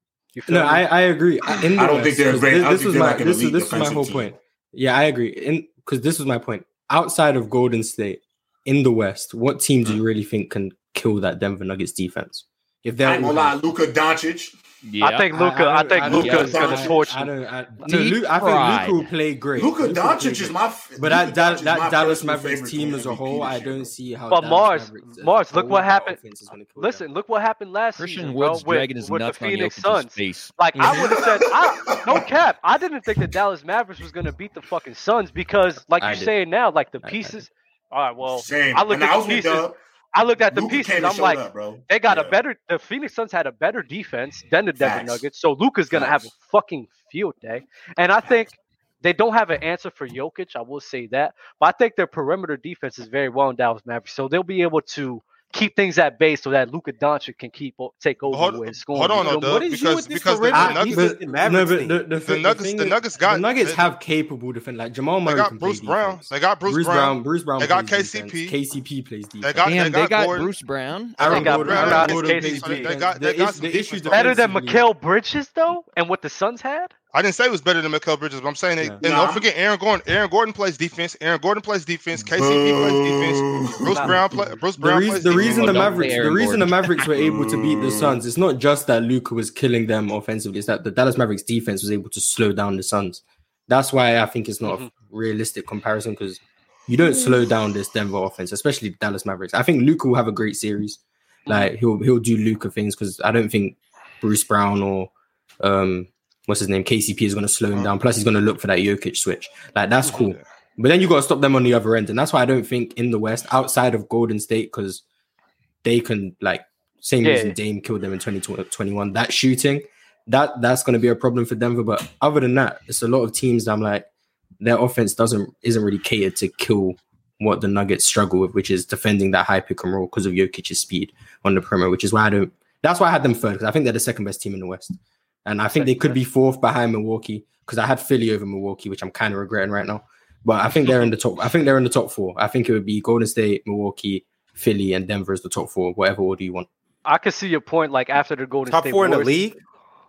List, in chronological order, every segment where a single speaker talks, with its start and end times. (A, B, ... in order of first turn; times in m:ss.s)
0:00.3-0:00.8 A
0:00.5-0:13.6 B
0:01.8-0:04.3 C
0:13.0-0:14.5 C
0:14.8-0:15.2 D
0:15.0-0:17.3 A
0:15.3-0:27.0 B
0:16.0-0:17.0 C
0:16.1-0:16.6 D
0:17.8-0:19.0 D
0:19.6-0:23.9 C
0:24.3-0:26.2 A
0:26.8-0:59.6 A
0:28.0-0:30.5 D
0:30.7-0:31.1 B
0:30.8-0:32.2 C
0:36.0-0:36.3 B
0:37.0-0:37.4 B
0:38.2-0:39.8 C
0:40.5-0:42.4 C
0:44.8-0:45.2 C
0:45.9-0:46.2 C
0:58.3-1:01.0 E
0:59.4-1:02.1 F
1:00.5-1:09.8 B
1:02.1-1:03.8 E
1:05.2-1:08.6 E
1:09.4-1:10.5 E
1:09.6-1:11.8 D
1:11.2-1:14.4 E
1:11.2-1:14.8 B
1:11.2-1:12.9 A
1:14.1-1:16.9 A
1:17.1-1:26.0 E
1:19.0-1:19.5 C
1:22.2-1:24.1 C
1:23.8-1:24.6 A
1:24.8-1:55.0 B
1:25.3-1:26.9 D
1:27.0-1:28.2 C
1:34.6-1:34.9 A
1:41.4-1:41.7 A
1:55.8-2:04.1 B
1:57.2-1:57.6 A
2:04.6-2:26.7 B
2:15.7-2:16.2 A
2:27.0-2:29.3 A
2:28.7-2:29.6 F